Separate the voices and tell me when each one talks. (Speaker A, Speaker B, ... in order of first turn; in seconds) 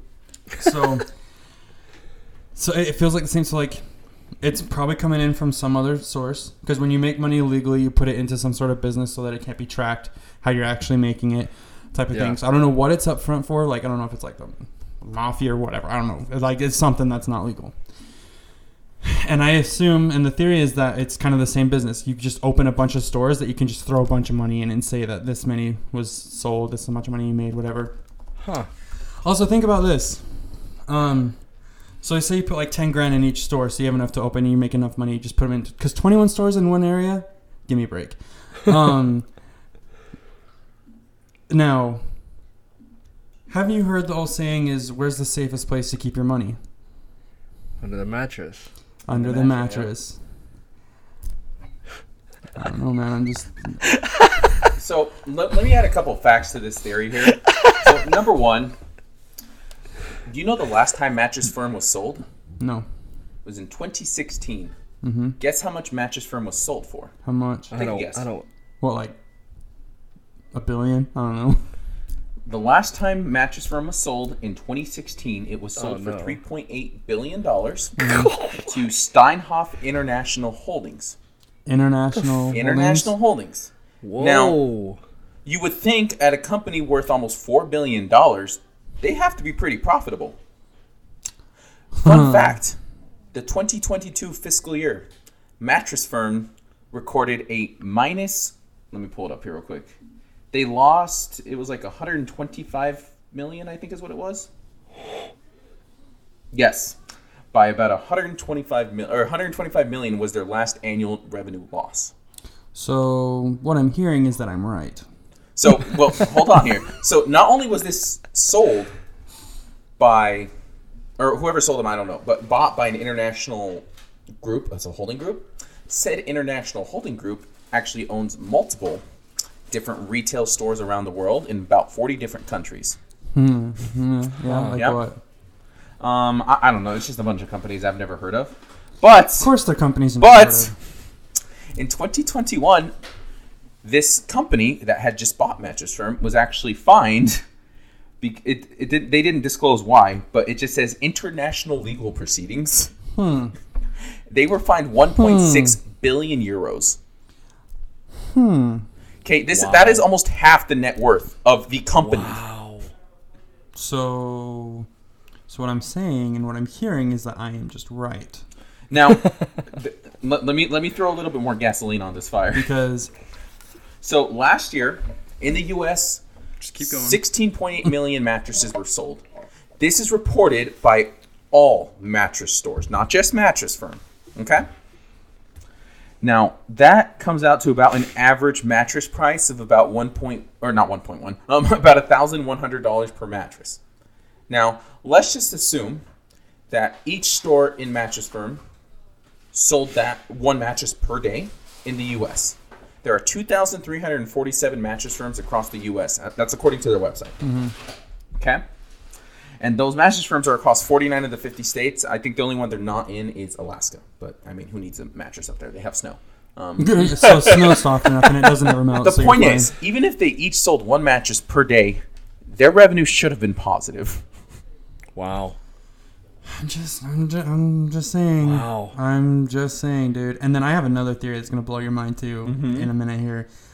Speaker A: 0.5-1.1, 2.5-3.8, 4.4-17.7, 19.0-27.9, 29.2-31.4, 32.0-39.3, 41.5-42.0, 43.5-46.6, 49.1-50.2, 52.5-53.8, 62.6-62.9, 65.0-65.4, 67.2-67.7, 68.8-69.2, 70.5-71.6, 78.0-78.3, 81.7-83.1, 92.0-92.5, 112.7-115.0, 133.3-135.2, 139.4-140.7, 153.1-153.5, 155.2-155.8, 158.3-158.8, 163.7-164.9, 165.5-168.4, 172.5-173.1, 176.6-177.2, 207.4-207.7, 216.8-219.7, 226.4-233.5
Speaker B: 12.1-12.4, 28.4-28.7, 47.8-48.7, 57.5-57.7, 67.7-68.5, 75.8-76.4, 78.0-78.8, 82.1-82.5, 84.0-85.0, 134.4-134.8, 159.5-160.1, 162.0-162.9, 225.1-225.6, 228.4-228.9
Speaker C: 49.1-49.9, 54.8-58.7, 60.2-62.2, 63.4-64.7, 65.4-67.1, 67.7-68.2, 72.5-78.0, 78.7-81.2, 82.5-84.6, 85.5-90.4, 92.0-92.8, 93.3-95.1, 95.6-99.9, 100.5-104.5, 106.5-107.0, 107.5-112.1, 115.6-118.9, 120.0-120.5, 121.2-123.8, 124.4-129.0, 129.7-133.0, 134.7-135.0, 136.0-139.5, 140.2-140.7, 141.7-142.9, 143.8-147.4, 148.2-152.9, 154.3-157.0, 159.2-162.4, 168.9-172.7, 174.0-176.2, 176.8-179.2, 179.8-184.7, 186.2-193.8, 194.5-196.0, 196.7-198.6, 199.5-207.3, 208.4-208.6, 209.6-224.2, 232.4-232.9